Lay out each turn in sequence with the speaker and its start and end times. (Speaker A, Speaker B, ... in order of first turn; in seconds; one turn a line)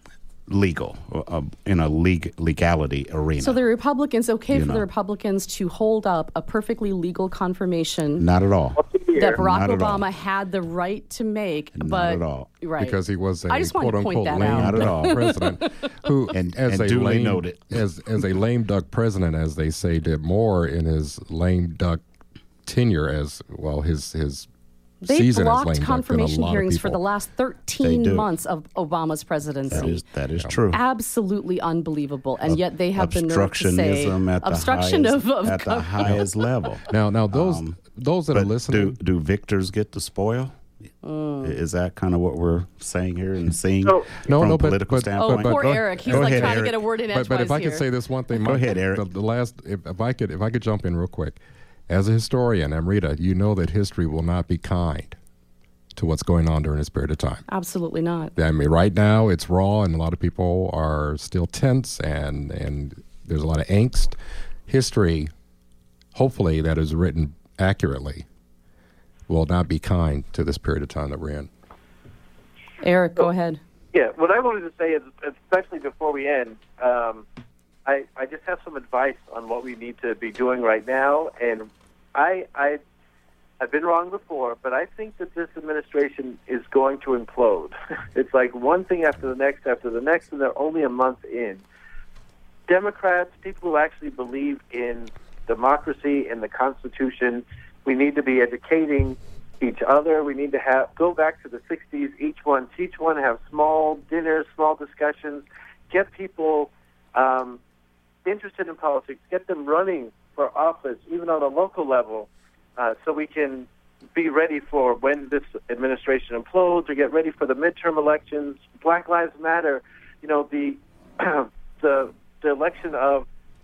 Speaker A: 0.5-3.6
Speaker B: 3.4-8.2
Speaker A: 4.5-4.8
Speaker A: 8.2-8.8
Speaker C: 8.8-9.3
Speaker B: 9.2-13.0
Speaker A: 9.4-10.1
Speaker A: 11.8-12.5
Speaker D: 12.8-22.0
Speaker B: 13.5-15.7
Speaker A: 14.4-15.4
Speaker A: 16.3-17.8
Speaker D: 22.6-24.5
Speaker B: 25.0-30.0
Speaker D: 25.1-27.0
Speaker A: 27.8-28.3
Speaker A: 29.7-30.8
Speaker D: 29.7-30.6
Speaker B: 30.7-36.2
Speaker A: 32.5-37.8
Speaker D: 36.9-39.0
Speaker A: 38.3-40.6
Speaker B: 41.0-41.6
Speaker A: 41.4-46.8
Speaker C: 43.8-44.1
Speaker D: 44.2-55.2
Speaker B: 45.1-47.9
Speaker A: 48.4-49.1
Speaker D: 56.0-57.4
Speaker B: 57.5-58.3
Speaker D: 58.4-64.2
Speaker D: 64.7-65.3
Speaker D: 66.2-68.2
Speaker D: 69.3-71.5
Speaker B: 72.8-73.6
Speaker C: 73.9-77.2
Speaker C: 77.9-82.8
Speaker C: 83.6-91.6
Speaker C: 92.7-107.6
Speaker C: 108.2-123.3